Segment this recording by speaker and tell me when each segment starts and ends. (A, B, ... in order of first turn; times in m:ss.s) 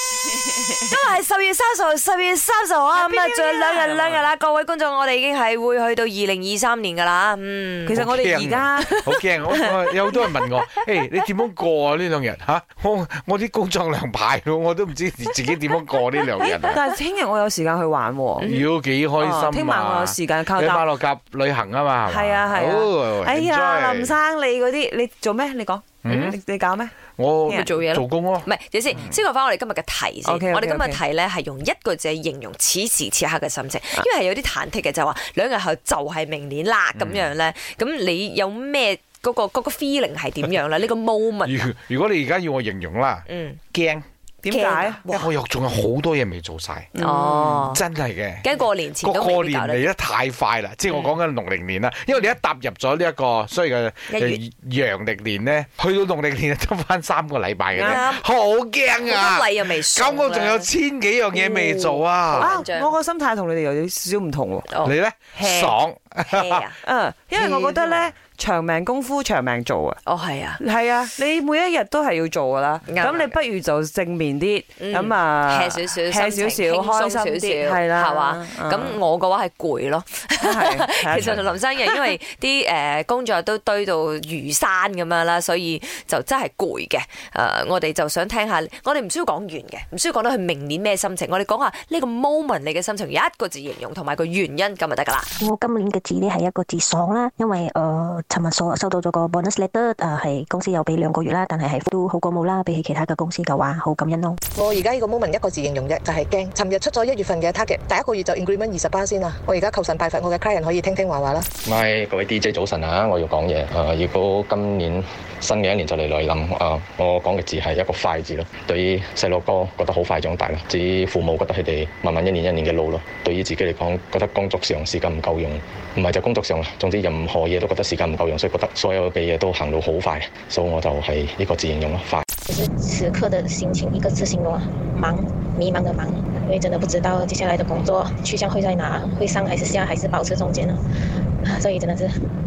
0:00.5-0:00.9 A
0:00.8-0:08.1 B
0:02.9-0:04.3 A
0:07.8-0:09.5 A
0:08.0-0:16.8 C
0:16.4-0:18.5 A
0:18.4-0:24.2 C
0:19.2-0:20.9 A
0:22.1-0:26.9 A
0:26.0-0:26.4 C
0:27.0-0:28.4 C
0:27.5-0:41.6 B
0:30.2-0:31.0 A
0:37.0-0:37.2 C
0:41.4-0:44.0 C
0:43.3-0:43.6 B
0:44.4-0:45.0 A
0:44.5-0:45.3 B
0:45.1-0:46.9 C
0:46.9-0:47.5 A
0:47.0-0:47.8 B
0:47.5-1:02.5 C
0:48.4-0:49.8 B
0:54.1-0:54.4 B
0:57.7-0:58.2 B
0:57.8-0:58.1 A
0:59.0-1:00.7 B
1:01.3-1:02.9 B
1:02.4-1:04.7 A
1:04.8-1:06.7 C
1:05.3-1:05.8 A
1:06.3-1:06.8 B
1:06.8-1:10.0 A
1:07.3-1:08.1 B
1:10.0-1:10.6 B
1:10.6-1:19.0 A
1:12.9-1:13.3 B
1:14.8-1:35.3 B
1:20.4-1:22.1 A
1:35.4-1:44.4 D
1:44.6-1:51.4 E
1:51.6-2:12.2 F
2:12.5-2:20.7 G
2:21.6-2:22.1 G